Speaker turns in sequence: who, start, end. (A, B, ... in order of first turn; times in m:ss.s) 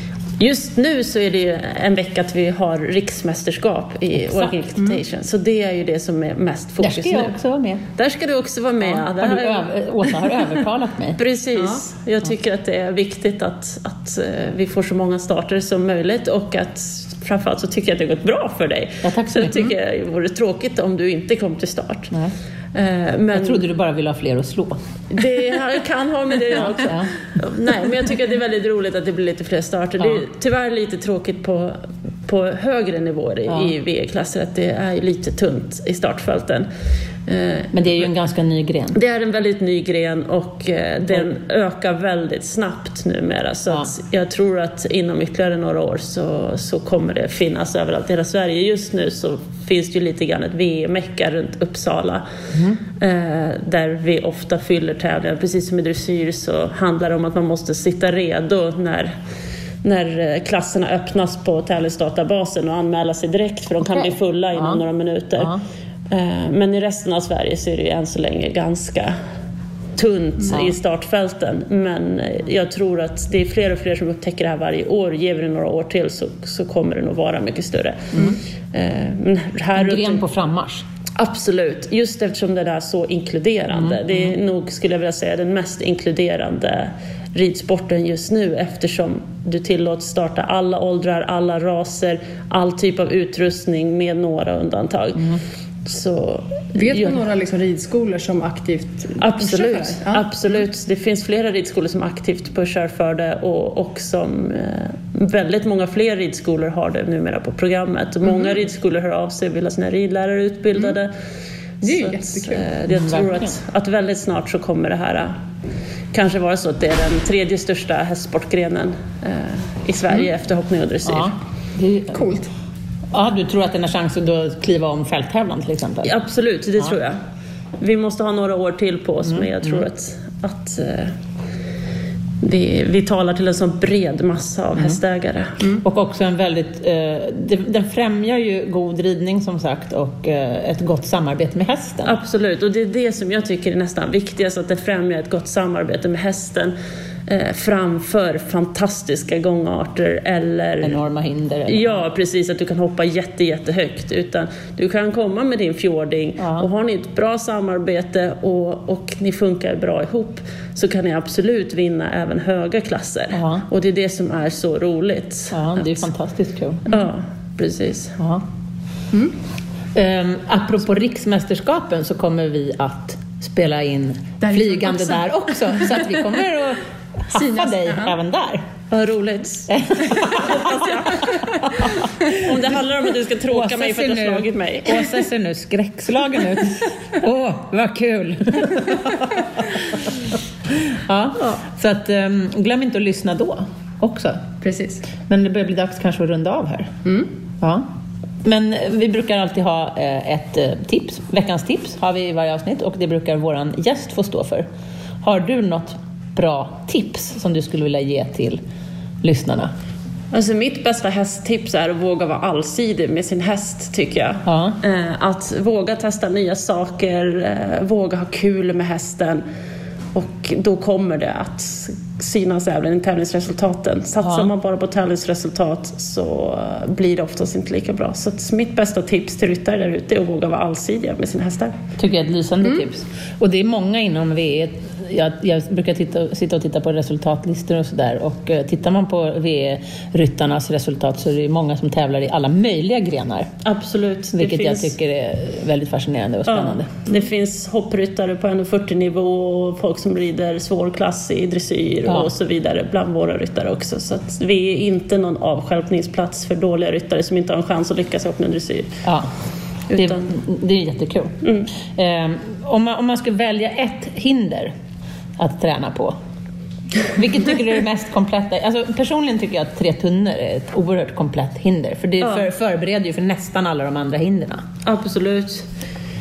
0:00.4-0:07.4 A
0:04.2-0:04.5 B
0:06.8-0:07.8 B
0:08.0-0:10.6 A
0:08.8-0:11.2 B
0:11.2-0:22.2 A
0:11.6-0:11.8 C
0:19.0-0:19.6 B
0:22.7-0:23.7 A
0:23.3-0:24.8 B
0:25.1-0:36.7 A
0:26.7-0:27.7 B
0:30.0-0:30.2 B
0:33.5-0:33.8 B
0:37.3-0:38.1 A
0:37.7-0:39.0 B
0:38.9-0:52.3 A
0:52.5-0:52.8 B
0:53.0-0:59.2 A
0:59.8-1:05.5 A
1:04.6-1:04.8 B
1:05.4-1:05.6 B
1:06.1-1:09.2 A
1:10.0-1:20.2 A
1:10.5-1:10.8 B
1:19.8-1:20.8 B
1:21.2-1:37.2 A
1:23.7-1:24.4 B
1:35.2-1:35.4 B
1:36.8-1:40.3 C
1:39.2-1:51.1 A
1:51.8-1:55.4 A
1:51.8-1:53.6 B
1:56.1-2:01.4 A
2:01.0-2:02.3 B
2:02.1-2:02.5 C
2:03.1-2:06.1 B
2:06.0-2:07.2 A
2:07.8-2:11.1 A
2:09.2-2:09.8 B
2:12.4-2:15.7 A
2:15.8-2:22.2 B
2:22.0-2:26.8 A
2:27.3-2:31.0 A
2:30.8-2:32.0 B
2:31.7-2:46.1 A
2:36.4-2:36.7 B
2:43.3-2:43.7 B
2:45.5-2:46.9 B
2:46.9-2:48.2 A
2:48.2-2:48.4 B
2:49.9-2:58.6 B
2:54.4-2:56.3 C
2:57.3-2:58.2 C
2:58.9-3:05.1 A
2:59.7-3:02.5 B
3:03.5-3:09.3 B
3:09.9-3:10.2 B
3:10.8-3:14.5 B
3:14.6-3:15.0 C
3:15.3-3:16.9 B
3:17.0-3:17.3 C
3:17.6-3:17.9 B
3:18.4-3:24.7 B
3:25.2-3:28.6 B
3:29.2-3:29.7 B
3:30.3-3:39.5 A
3:34.4-3:34.8 B
3:40.1-3:51.8 A
3:44.2-3:44.5 B
3:52.0-4:03.5 B
4:03.6-4:04.9 A
4:04.3-4:07.1 B
4:06.5-4:19.0 A
4:12.1-4:12.3 B
4:19.0-4:19.3 B
4:19.9-4:20.4 A
4:19.9-4:21.4 B
4:21.4-4:21.7 A
4:21.9-4:24.7 B
4:25.4-4:26.2 B
4:27.0-4:34.6 B
4:32.2-4:32.5 A
4:34.8-4:35.7 A